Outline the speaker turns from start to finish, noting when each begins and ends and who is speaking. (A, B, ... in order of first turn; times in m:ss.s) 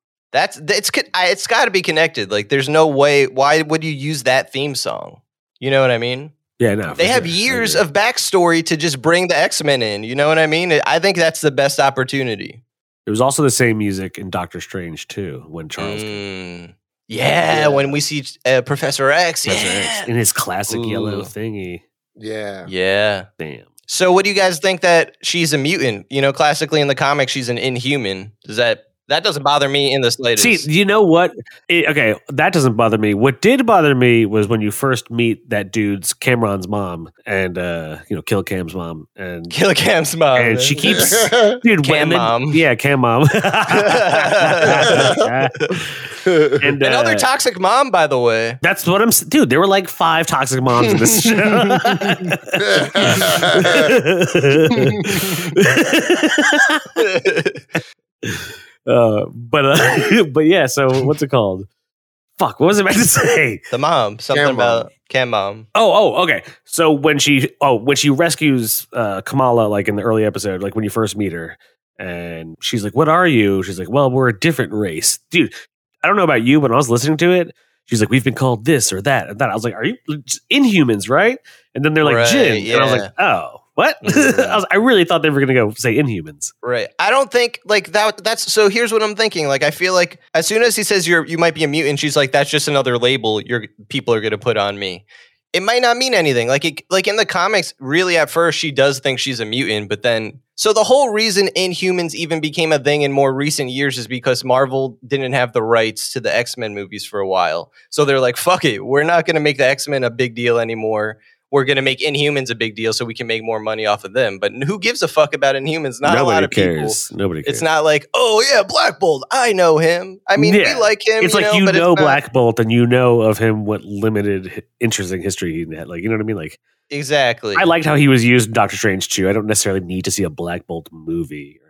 0:00.3-0:06.3 A
0:06.6-0:07.8 B
0:07.0-0:12.6 A
0:13.0-0:16.2 B
0:15.8-0:20.1 A
0:17.4-0:18.0 C
0:19.4-0:21.8 B
0:20.7-0:21.3 A
0:22.2-0:22.7 C
0:22.6-0:23.3 A
0:23.4-0:23.7 B
0:23.9-0:30.7 A
0:30.4-0:39.6 B
0:39.5-0:41.1 A
0:40.3-0:47.3 B
0:40.8-0:41.6 C
0:41.8-0:42.6 A
0:43.7-0:45.8 A
0:46.2-0:46.6 C
0:46.8-0:48.6 A
0:48.6-0:56.9 B
0:51.9-0:52.2 A
0:52.6-0:53.9 C
0:55.0-0:55.2 C
0:57.0-0:57.6 A
0:58.2-1:01.7 B
1:02.4-1:03.6 B
1:03.7-1:05.7 A
1:04.3-1:04.9 C
1:05.7-1:26.5 B
1:22.0-1:23.1 A
1:24.0-1:24.6 A
1:26.6-2:02.2 A
1:56.0-1:57.6 B
2:00.4-2:06.6 B
2:06.9-2:07.7 A
2:07.5-2:11.6 B